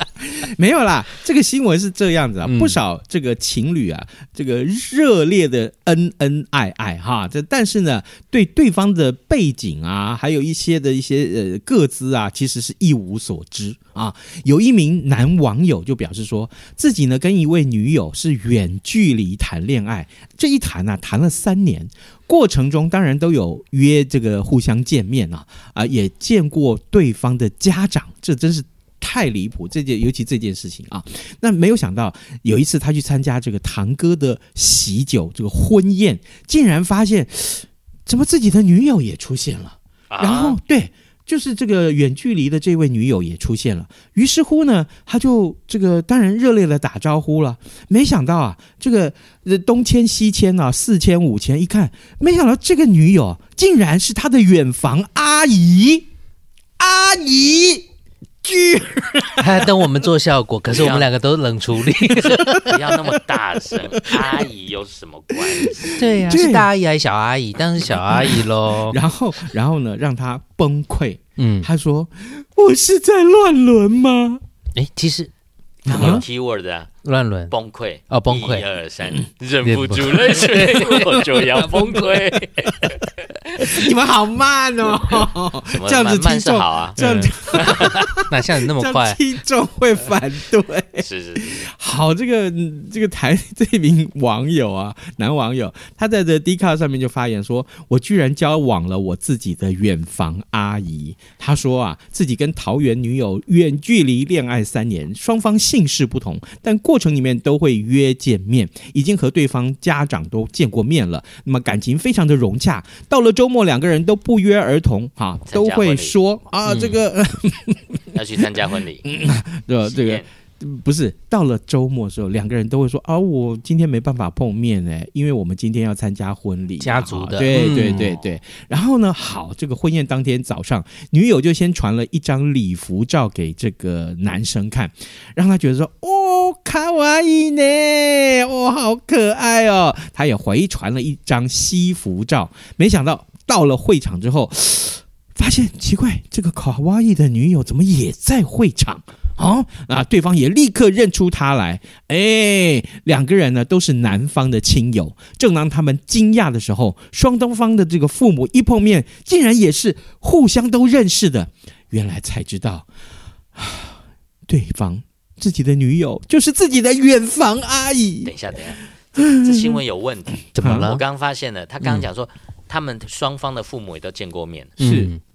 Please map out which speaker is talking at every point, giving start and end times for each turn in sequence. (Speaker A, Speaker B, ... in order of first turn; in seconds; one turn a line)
Speaker A: 0.4-56.1
Speaker B: 2.4-2.8
Speaker C: 40.1-40.6
Speaker A: 56.8-57.9
Speaker A: 58.4-59.8
Speaker B: 59.4-62.8
Speaker C: 60.7-61.1
Speaker C: 62.2-65.9
Speaker A: 65.6-66.7
Speaker B: 65.9-69.0
Speaker A: 67.9-74.4
Speaker B: 71.4-71.7
Speaker B: 74.8-75.3
Speaker C: 75.8-76.9
Speaker A: 75.9-76.2
Speaker B: 75.9-76.2
Speaker B: 77.0-77.5
Speaker C: 77.5-83.9
Speaker B: 78.1-78.7
Speaker B: 79.6-81.0
Speaker A: 81.3-82.0
Speaker A: 83.7-118.0
Speaker C: 85.7-87.0
Speaker B: 87.0-89.2
Speaker C: 87.5-87.9
Speaker C: 91.0-91.5
Speaker C: 115.5-116.2
Speaker B: 116.7-117.0
Speaker C: 118.1-119.0
Speaker A: 119.0-162.9
Speaker C: 119.8-120.3
Speaker B: 126.8-128.2
Speaker C: 127.6-128.4
Speaker A: 163.6-168.3
Speaker C: 168.2-174.8
Speaker A: 169.2-169.8
Speaker B: 170.5-171.0
Speaker A: 170.6-170.9
Speaker B: 171.8-172.1
Speaker A: 174.8-175.1
Speaker B: 174.8-175.2